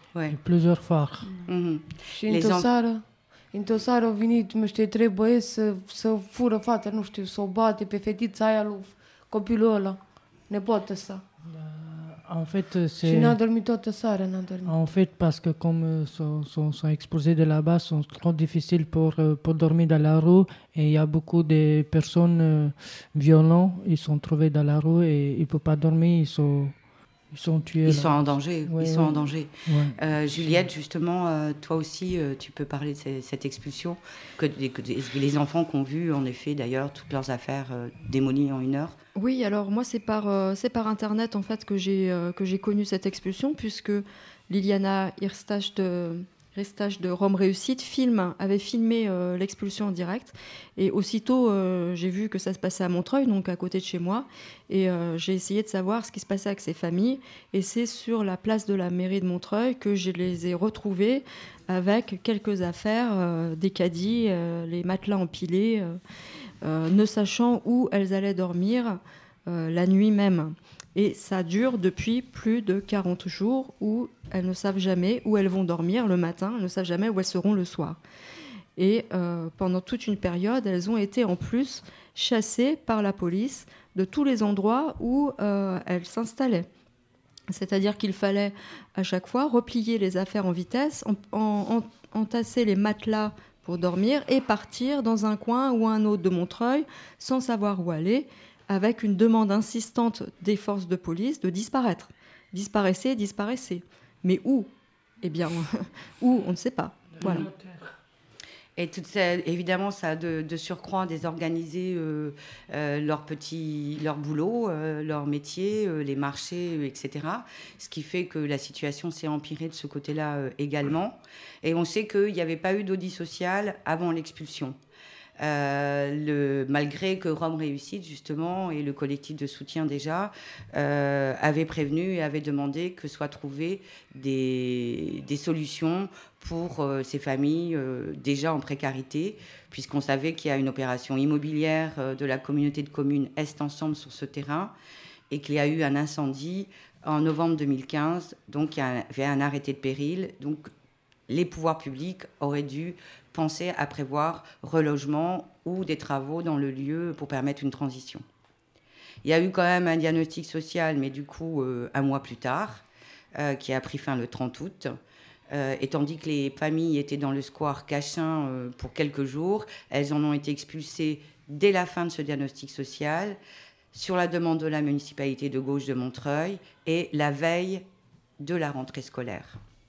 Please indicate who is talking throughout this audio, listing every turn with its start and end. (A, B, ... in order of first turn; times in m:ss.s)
0:00.3-0:01.3 A
0:01.5-0:02.7 B
0:02.2-0:11.2 C
0:11.5-0:13.4 A
0:13.0-0:14.7 C
0:14.6-0:30.6 A
0:27.8-0:39.0 B
0:39.2-1:06.0 D
1:06.6-1:18.0 D
1:18.8-1:26.7 D
1:27.5-1:44.7 D
1:45.2-1:47.5 D
1:47.2-1:48.0 A
1:48.8-2:04.8 B
2:05.4-2:24.8 B
2:25.3-2:30.7 B
2:31.3-2:38.2 B
2:39.2-2:45.0 B
2:45.5-2:53.4 B
2:53.9-2:57.9 B
2:58.4-2:59.6 B